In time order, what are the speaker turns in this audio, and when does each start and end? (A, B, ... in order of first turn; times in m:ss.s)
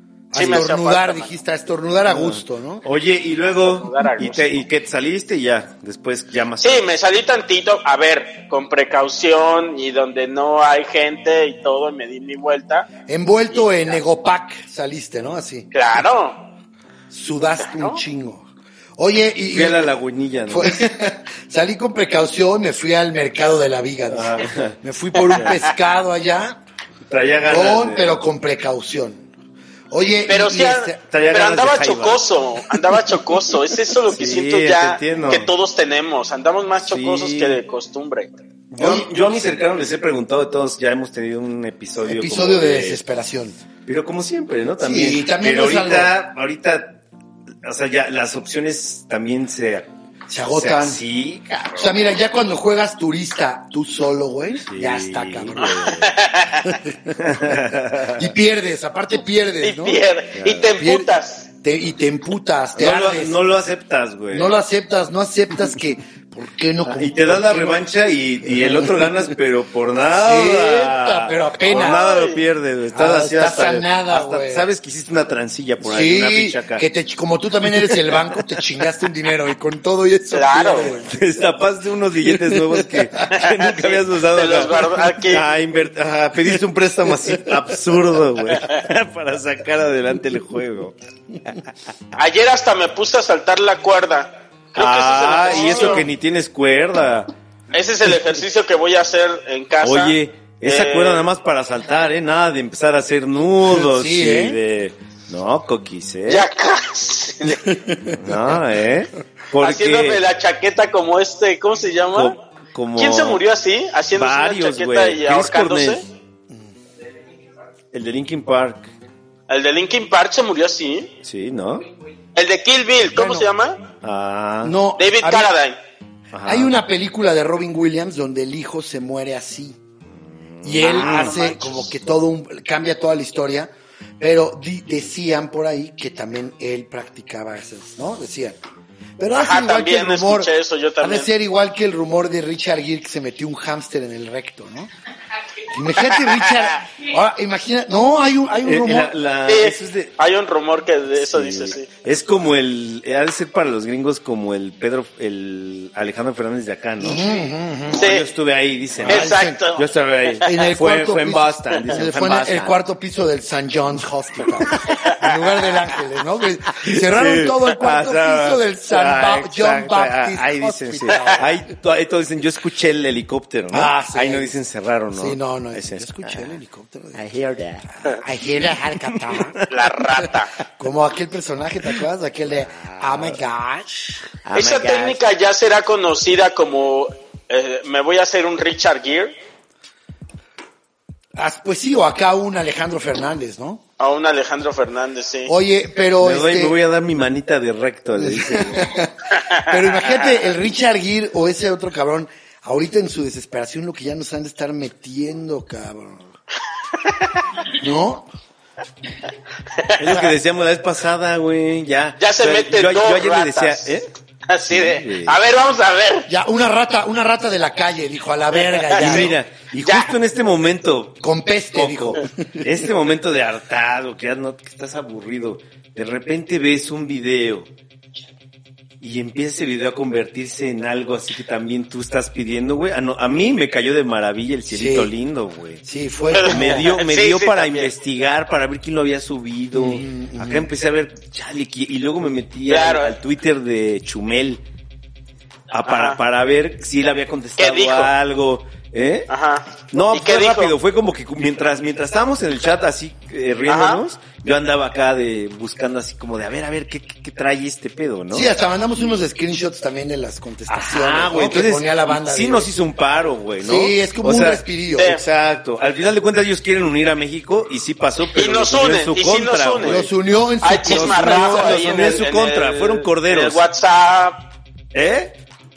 0:00.3-0:02.8 A
0:00.3-0:01.3 B
0:02.0-0:06.9 C
0:03.6-0:04.6 B
0:06.6-0:12.9 B
0:13.0-0:15.7 A
0:13.5-0:14.0 B
0:15.7-0:16.4 B
0:17.1-0:19.9 A
0:17.6-0:18.0 B
0:19.5-0:20.7 C
0:20.5-0:26.6 A
0:24.1-0:24.8 C
0:27.1-0:28.2 C
0:27.4-0:29.2 A
0:29.9-0:31.0 A
0:30.3-0:38.3 B
0:31.0-0:32.2 C
0:34.1-0:35.5 C
0:36.8-0:37.6 C
0:38.7-0:43.0 C
0:38.8-0:39.1 A
0:42.0-0:43.6 A
0:43.8-0:47.0 C
0:44.8-0:46.1 A
0:47.6-0:49.9 C
0:50.3-0:51.0 A
0:50.5-0:52.0 C
0:51.8-0:55.9 A
0:54.7-0:56.1 C
0:55.6-0:56.7 B
0:56.7-1:00.0 A
0:57.1-0:58.3 C
0:59.6-1:01.5 B
1:00.4-1:00.7 C
1:00.8-1:03.4 A
1:02.8-1:04.5 C
1:04.3-1:07.9 A
1:06.8-1:16.8 C
1:08.4-1:09.3 A
1:10.1-1:12.0 A
1:11.7-1:12.4 B
1:12.9-1:14.7 A
1:15.8-1:21.2 A
1:17.9-1:18.3 C
1:20.3-1:20.9 B
1:21.0-1:30.9 C
1:22.2-1:23.2 A
1:23.3-1:25.4 B
1:27.1-1:27.7 A
1:32.1-1:36.0 B
1:34.8-1:37.3 C
1:37.7-1:41.3 B
1:39.8-1:46.5 C
1:43.6-1:44.6 A
1:46.3-1:47.7 B
1:47.6-1:48.4 A
1:48.2-1:50.2 C
1:49.6-1:52.4 B
1:52.1-1:53.4 C
1:53.0-1:56.0 B
1:54.1-1:56.0 C
1:57.9-1:58.9 C
1:59.5-2:01.1 B
2:01.2-2:01.9 C
2:02.3-2:03.8 B
2:03.1-2:03.5 A
2:04.0-2:04.8 C
2:04.6-2:05.5 A
2:05.0-2:05.8 B
2:06.3-2:06.7 C
2:06.4-2:09.8 A
2:10.5-2:11.7 C
2:10.6-2:18.6 A
2:19.2-2:24.9 A
2:19.3-2:21.3 B
2:25.7-2:29.1 A
2:26.0-2:26.8 B
2:28.6-2:30.2 C
2:29.5-2:31.9 B
2:31.2-2:37.2 C
2:37.0-2:38.0 A
2:37.9-2:42.8 C
2:37.9-2:38.3 B
2:39.0-2:39.6 A
2:39.1-2:39.8 B
2:40.4-2:51.6 A
2:44.7-2:45.0 C
2:46.8-2:56.6 C
2:51.1-2:51.4 B
2:53.7-2:54.6 A
2:55.1-2:57.2 A
2:57.1-2:58.0 C
2:58.0-2:59.6 A
2:59.1-2:59.7 C
2:59.7-3:00.5 B
3:00.8-3:04.3 A
3:02.6-3:03.4 C
3:04.4-3:05.2 C
3:04.5-3:09.3 B
3:11.4-3:13.8 A
3:14.0-3:15.5 B
3:15.4-3:16.8 A
3:16.2-3:18.9 C
3:18.1-3:26.3 A
3:19.4-3:20.2 B
3:26.9-3:27.4 B
3:27.8-3:28.3 A
3:29.7-3:30.2 B
3:30.0-3:34.1 C
3:32.2-3:33.9 B
3:34.5-3:36.3 B
3:34.6-3:35.4 C
3:36.3-3:39.4 A
3:38.6-3:39.3 B
3:38.9-3:47.7 C
3:39.8-3:40.1 B
3:41.2-3:42.7 A
3:49.0-3:55.8 C
3:54.7-3:55.1 A
3:55.8-3:56.8 A
3:56.3-3:57.9 B
3:56.4-4:04.6 C
3:59.7-4:00.7 A
4:02.7-4:03.2 B
4:05.7-4:09.3 C
4:05.9-4:06.2 B
4:07.6-4:08.1 B
4:09.3-4:10.7 B
4:09.9-4:18.5 C
4:13.7-4:14.0 B
4:18.3-4:22.7 A
4:20.7-4:30.1 C
4:23.6-4:25.1 A
4:24.9-4:25.2 B
4:28.3-4:30.0 B
4:29.8-4:32.2 A
4:30.6-4:34.4 B
4:30.8-4:33.6 C
4:34.9-4:35.4 C